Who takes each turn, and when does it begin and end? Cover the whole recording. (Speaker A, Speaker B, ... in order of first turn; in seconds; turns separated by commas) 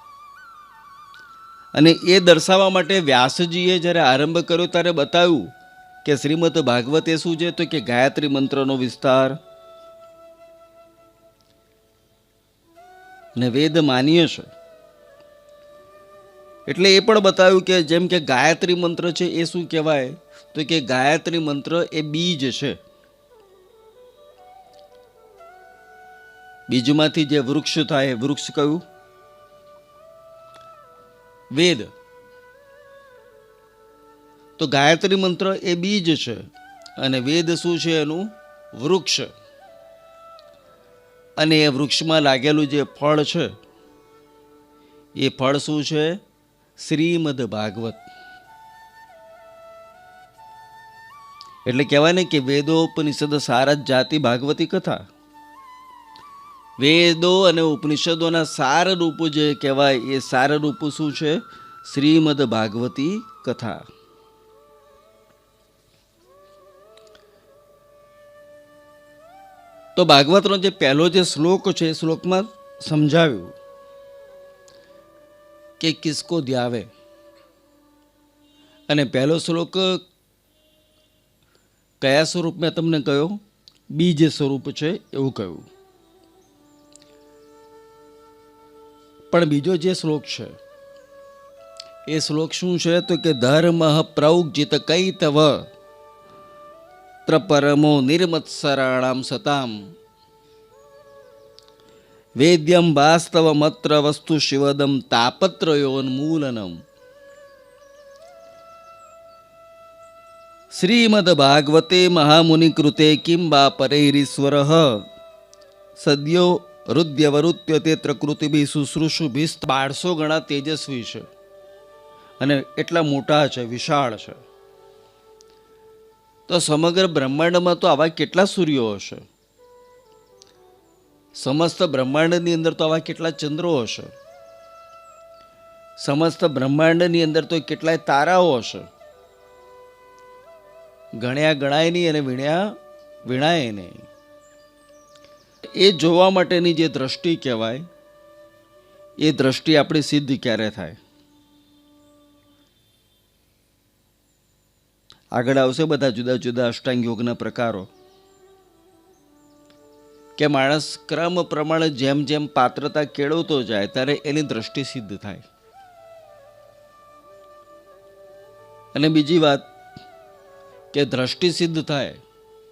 Speaker A: 1.7-5.5, Speaker A: 6.0-9.4, Speaker A: 13.3-14.5, Speaker A: 16.7-22.8, Speaker A: 26.7-28.8, Speaker A: 31.5-31.9, Speaker A: 34.6-36.5, Speaker A: 37.0-39.3, Speaker A: 41.4-43.5, Speaker A: 45.2-46.2, Speaker A: 46.8-48.0, Speaker A: 51.6-55.0, Speaker A: 56.8-63.8, Speaker A: 70.0-73.5, Speaker A: 75.8-76.9, Speaker A: 78.9-80.0, Speaker A: 82.0-83.4, Speaker A: 83.9-85.7, Speaker A: 89.3-90.5, Speaker A: 92.1-95.7, Speaker A: 97.2-99.9, Speaker A: 102.4-106.8, Speaker A: 110.7-115.0, Speaker A: 116.0-121.3, Speaker A: 122.4-124.4, Speaker A: 126.5-129.2, Speaker A: 131.3-134.1, Speaker A: 136.0-138.9, Speaker A: 141.2-142.7, Speaker A: 143.3-144.1, Speaker A: 145.8-147.8, Speaker A: 149.2-151.0, Speaker A: 155.3-157.9, Speaker A: 160.4-165.4, Speaker A: 168.9-169.7, Speaker A: 170.9-172.2